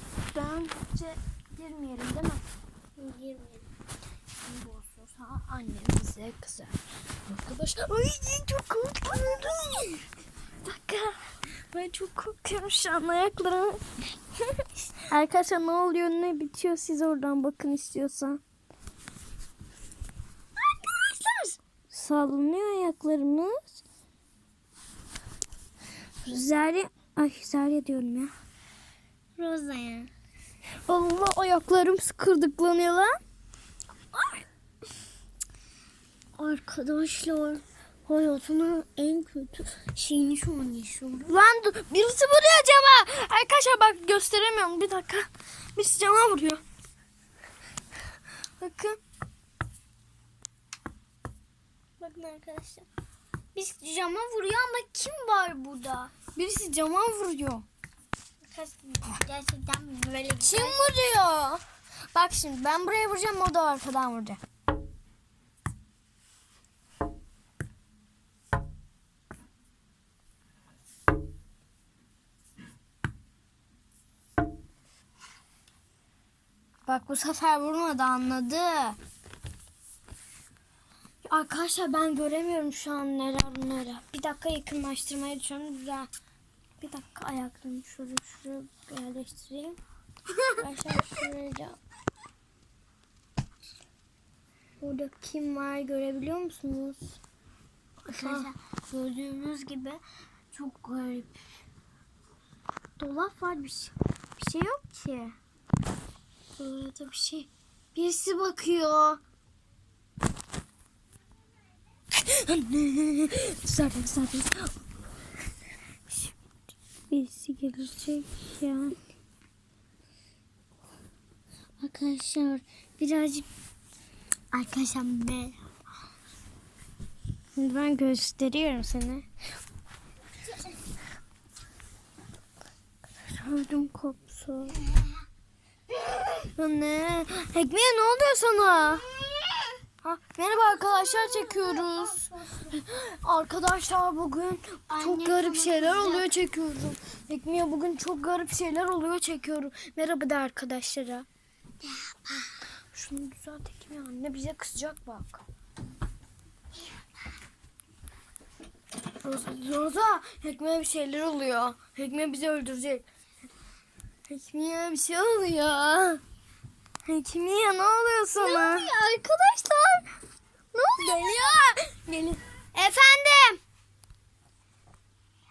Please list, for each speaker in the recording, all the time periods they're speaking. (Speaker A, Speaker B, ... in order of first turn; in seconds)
Speaker A: 0.3-2.4, 4.5-6.8, 7.3-10.1, 10.6-13.8, 15.0-18.4, 21.0-23.8, 26.3-28.3, 30.9-33.2, 41.3-46.6, 48.6-49.0, 56.3-57.7, 60.4-61.6, 62.1-64.4, 76.9-79.0, 81.2-86.1, 86.8-89.8, 90.6-91.8, 94.8-97.2, 98.1-98.5, 104.4-104.8, 106.6-109.2, 112.1-114.7, 117.1-118.9, 127.6-129.3, 133.3-134.8, 136.4-139.1, 140.0-151.3, 152.9-155.4, 159.2-163.0, 164.3-166.2, 167.0-168.9, 170.9-172.4
Speaker B: 3.0-3.6, 29.4-30.1, 36.4-41.4, 52.0-52.9, 53.5-56.1, 58.5-60.8, 90.8-91.0, 98.1-100.0, 100.5-101.3, 103.0-103.9, 104.6-105.3, 121.8-123.5, 124.5-125.6, 140.8-142.6, 144.9-146.3, 151.8-152.5, 168.4-170.1, 170.7-171.3, 172.7-173.6